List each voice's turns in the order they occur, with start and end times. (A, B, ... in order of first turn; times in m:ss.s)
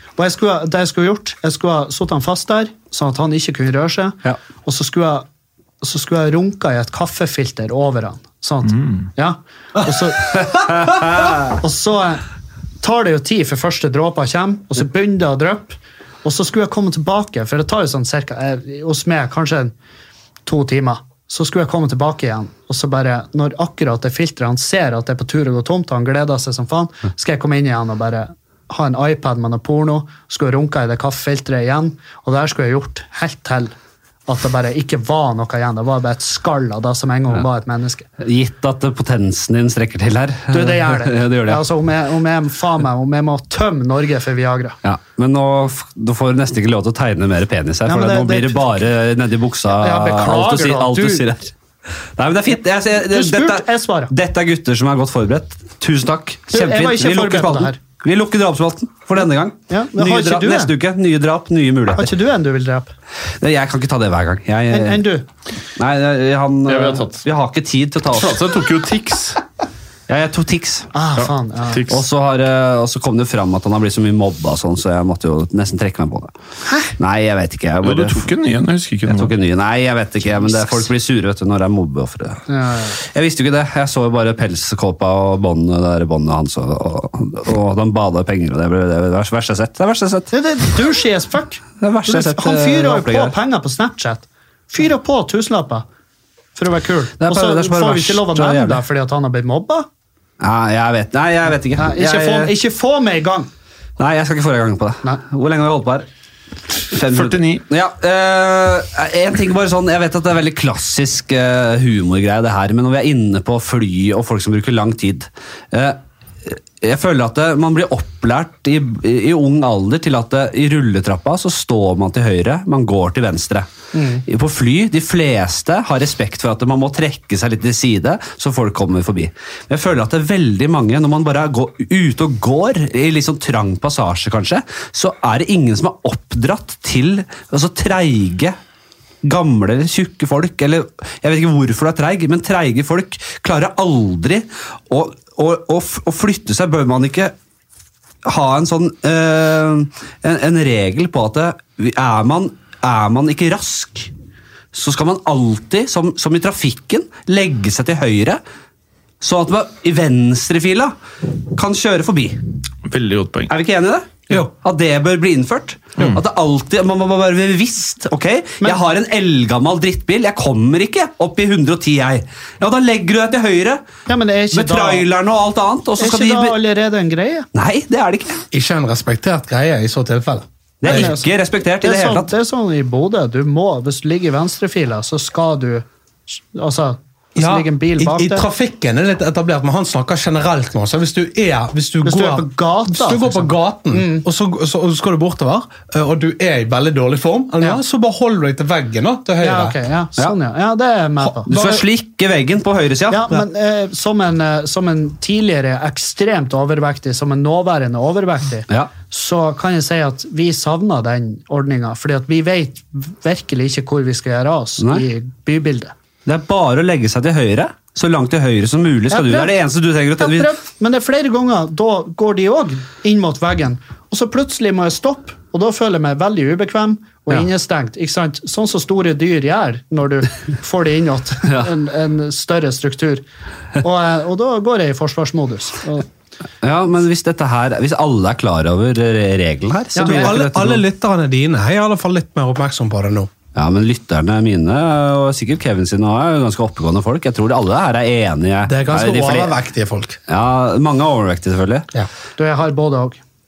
0:00.2-0:05.3 A
0:05.8-0:12.2 A
0:12.8-0:19.7 A
0:20.4-0:33.7 A
0:34.3-0:38.1 A
0:38.2-0:41.6 B
0:40.5-0:44.8 A
0:44.8-0:51.5 B
0:47.9-0:48.8 A
0:49.7-0:51.2 A
0:52.2-1:02.1 B
0:53.0-0:54.1 A
0:56.5-0:57.8 A
0:59.7-1:00.7 A
1:02.0-1:02.9 A
1:03.4-1:05.0 B
1:04.7-1:05.2 A
1:05.8-1:08.4 B
1:06.7-1:07.2 C
1:08.1-1:09.4 C
1:10.1-1:10.9 B
1:10.9-1:11.9 A
1:11.2-1:12.0 C
1:11.9-1:16.3 B
1:16.7-1:16.9 A
1:17.0-1:18.3 B
1:17.8-1:19.3 C
1:19.1-1:22.4 B
1:22.5-1:23.0 A
1:23.0-1:30.3 B
1:30.3-1:35.8 A
1:31.8-1:33.4 B
1:36.6-1:39.9 A
1:37.2-1:38.8 B
1:40.4-1:42.5 B
1:41.8-1:43.5 A
1:44.0-1:46.1 B
1:46.9-2:03.7 B
1:47.1-1:47.6 C
2:03.9-2:04.2 A
2:04.2-2:18.6 B
2:19.2-2:27.3 B
2:28.2-2:34.1 B
2:34.7-2:38.4 B
2:39.2-2:40.9 B
2:41.5-2:42.4 B
2:42.9-2:43.5 C
2:43.5-2:53.8 B
2:54.1-2:55.0 A
2:54.5-2:56.6 B
2:56.0-2:57.5 A
2:57.6-2:58.4 B
2:58.5-3:01.1 D
3:00.8-3:02.3 B
3:00.8-3:01.3 A
3:01.8-3:08.5 A
3:07.4-3:19.8 D
3:12.0-3:14.2 A
3:19.4-3:21.5 A
3:21.5-3:23.4 B
3:21.5-3:21.8 D
3:23.1-3:35.9 A
3:36.3-3:40.5 B
3:39.1-3:39.6 A
3:40.2-3:53.2 A
3:53.8-3:56.1 A
3:56.6-4:00.8 B
4:00.0-4:00.3 A
4:00.0-4:03.3 D
4:03.6-4:09.5 B
4:08.7-4:10.2 D
4:10.3-4:11.9 B
4:12.4-4:13.2 A